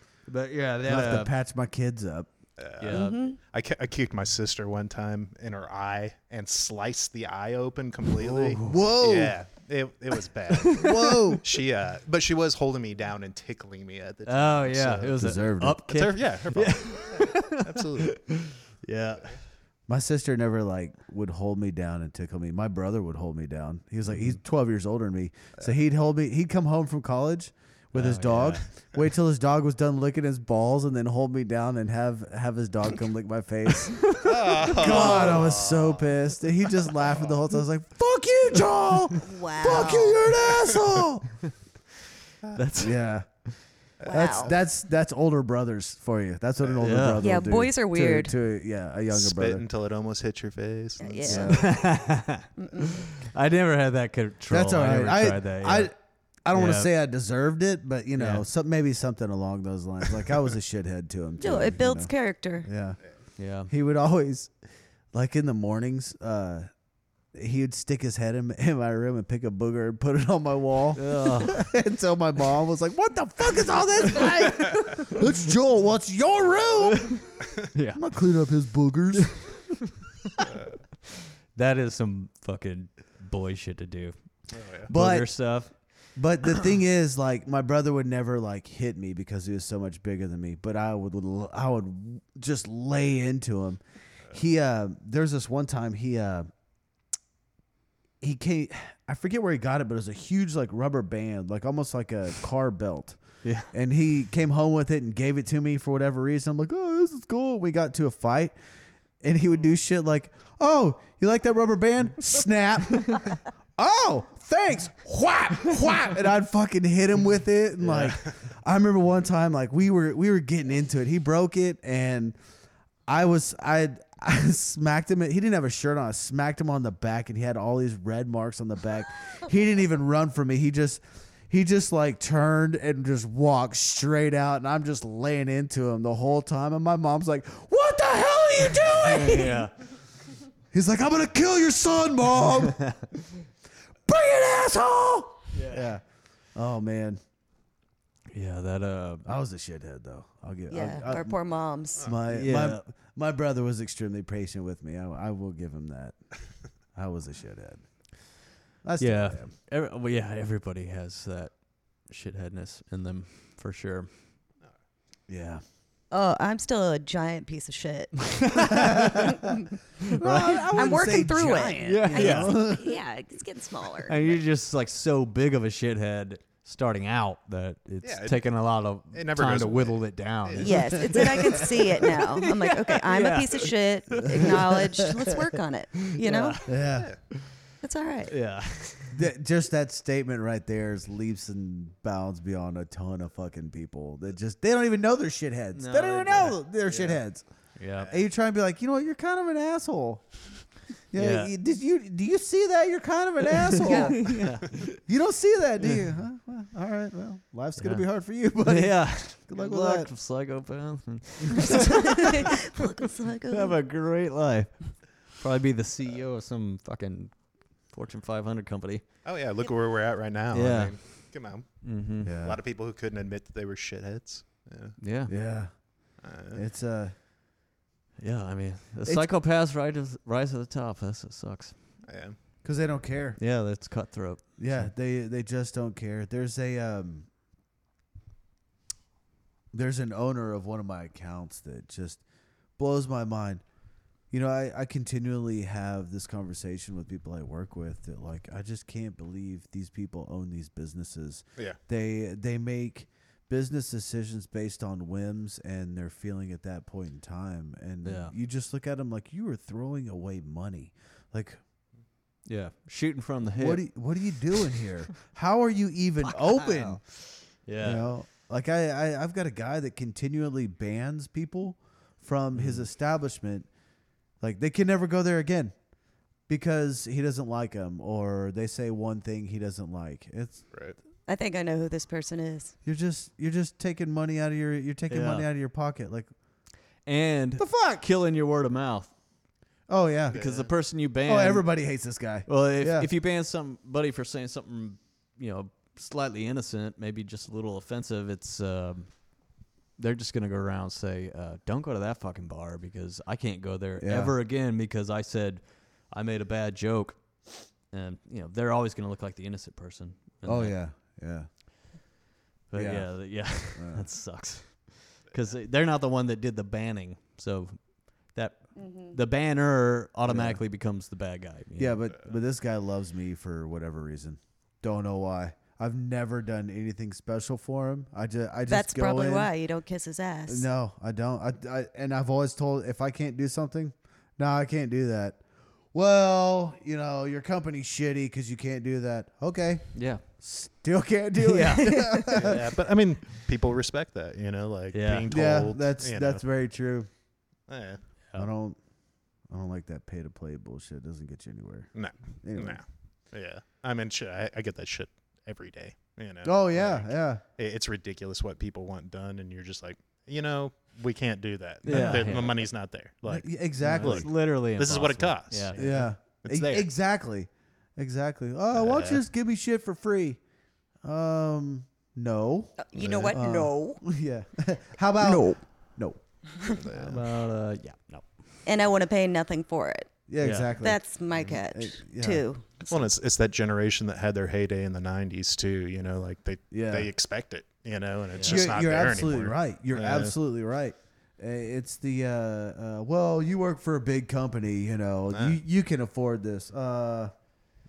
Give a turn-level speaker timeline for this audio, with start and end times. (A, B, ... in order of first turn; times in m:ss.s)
0:00.3-0:01.3 A
0:00.8-0:02.3 B
0:02.6-0:15.2 C
0:02.8-0:03.2 A
0:02.9-0:03.4 D
0:08.2-0:09.4 B
0:10.8-0:11.4 B
0:14.3-0:19.4 A
0:15.1-0:15.8 B
0:15.9-0:18.2 C
0:19.9-0:41.4 B
0:27.9-0:28.6 A
0:34.0-0:34.3 A
0:34.2-0:36.0 C
0:34.9-0:35.4 D
0:39.2-0:40.2 D
0:42.5-0:43.0 A
0:42.8-0:43.3 B
0:44.0-0:49.6 B
0:44.0-0:44.5 C
0:44.0-0:44.5 D
0:46.8-0:47.3 A
0:47.2-0:48.3 D
0:49.1-0:51.5 C
0:51.0-0:51.7 D
0:51.2-0:51.6 B
0:51.4-0:55.9 A
0:52.6-0:53.0 D
0:54.5-0:55.9 B
0:56.4-1:02.1 B
0:56.5-0:56.9 A
0:58.2-0:58.4 A
1:01.4-1:02.7 D
1:02.6-1:03.0 B
1:03.4-1:03.7 A
1:03.7-1:04.5 B
1:05.1-1:06.7 B
1:07.3-1:19.7 B
1:11.0-1:11.6 A
1:17.7-1:18.0 A
1:21.5-1:24.1 A
1:24.5-1:24.9 C
1:24.9-1:26.1 A
1:24.9-1:36.5 B
1:38.2-1:43.2 B
1:43.4-1:43.7 A
1:43.7-1:48.5 B
1:49.2-2:02.4 B
2:03.1-2:19.6 B
2:19.0-2:19.7 A
2:20.7-2:22.8 B
2:24.0-2:26.0 B
2:25.5-2:25.9 A
2:26.5-2:27.2 B
2:28.3-2:29.3 A
2:29.2-2:31.4 B
2:30.7-2:32.1 D
2:31.9-2:36.2 B
2:32.3-2:32.8 A
2:36.9-2:37.9 B
2:38.8-2:39.5 B
2:39.0-2:44.1 A
2:45.3-2:45.6 B
2:46.1-2:49.5 D
2:48.5-2:49.2 A
2:50.1-2:50.6 A
2:50.2-2:53.0 B
2:50.7-2:54.2 D
2:51.8-2:52.6 A
2:54.0-3:05.0 A
2:58.0-3:01.2 C
3:00.6-3:06.6 D
3:06.2-3:07.5 A
3:06.6-3:07.1 B
3:06.9-3:07.2 C
3:07.8-3:08.3 D
3:08.3-3:09.2 A
3:09.1-3:17.4 B
3:15.7-3:17.2 A
3:17.8-3:18.1 A
3:18.0-3:20.4 B
3:21.1-3:30.1 B
3:21.1-3:21.5 A
3:23.7-3:25.0 A
3:23.8-3:24.4 D
3:27.8-3:28.1 A
3:28.6-3:32.4 A
3:31.6-3:33.8 D
3:33.5-3:39.0 A
3:39.2-3:45.0 C
3:40.5-3:41.3 A
3:41.8-3:42.3 A
3:42.2-3:42.6 B
3:45.0-3:45.3 A
3:45.3-3:47.1 B
3:46.2-3:46.6 C
3:48.2-3:51.8 A
3:49.0-3:49.3 B
3:52.0-3:52.4 C
3:52.6-3:53.4 B
3:53.4-3:54.9 A
3:54.6-3:57.3 B
3:59.7-4:02.2 B
4:02.8-4:03.6 B
4:04.3-4:21.6 B
4:18.0-4:18.3 A
4:22.4-4:23.9 A
4:23.5-4:27.0 B
4:26.2-4:28.1 A
4:27.8-4:33.7 B
4:32.5-4:32.8 A
4:34.4-4:35.8 B
4:36.5-4:40.7 B
4:41.3-4:42.7 D
4:42.8-4:46.3 B
4:45.1-4:45.5 A
4:47.0-4:49.1 A
4:47.6-4:48.0 B
4:49.9-4:50.4 B
4:50.3-4:50.7 C
4:50.3-4:51.7 A
4:51.2-4:53.1 B
4:52.4-5:10.8 A
5:04.0-5:04.3 B
5:10.4-5:11.5 B
5:12.7-5:22.0 A
5:12.7-5:14.0 B
5:18.8-5:19.2 D
5:20.2-5:20.6 B
5:21.8-5:29.5 B
5:28.7-5:30.6 D
5:30.5-5:35.4 B
5:35.9-5:42.6 B
5:39.9-5:40.2 A
5:41.4-5:42.6 A
5:41.8-5:42.3 D
5:42.3-5:46.4 C
5:44.9-5:45.3 A
5:45.2-5:47.1 B
5:47.7-5:48.0 C
5:48.3-5:48.8 B
5:49.5-5:52.8 B
5:51.9-6:06.9 C
5:56.4-5:57.4 B
6:01.8-6:02.6 A
6:01.8-6:02.5 B
6:03.2-6:04.3 B
6:03.8-6:06.0 A
6:05.7-6:10.4 B
6:08.7-6:09.2 C
6:11.0-6:17.2 B
6:12.8-6:14.0 D
6:15.2-6:15.6 D
6:16.7-6:17.2 C
6:17.0-6:18.4 A
6:18.6-6:20.1 D
6:20.3-6:22.4 B
6:20.4-6:20.7 A
6:20.8-6:23.1 D
6:22.9-6:30.3 C
6:26.7-6:27.1 B
6:28.4-6:28.7 A
6:28.4-6:37.3 B
6:35.3-6:35.6 C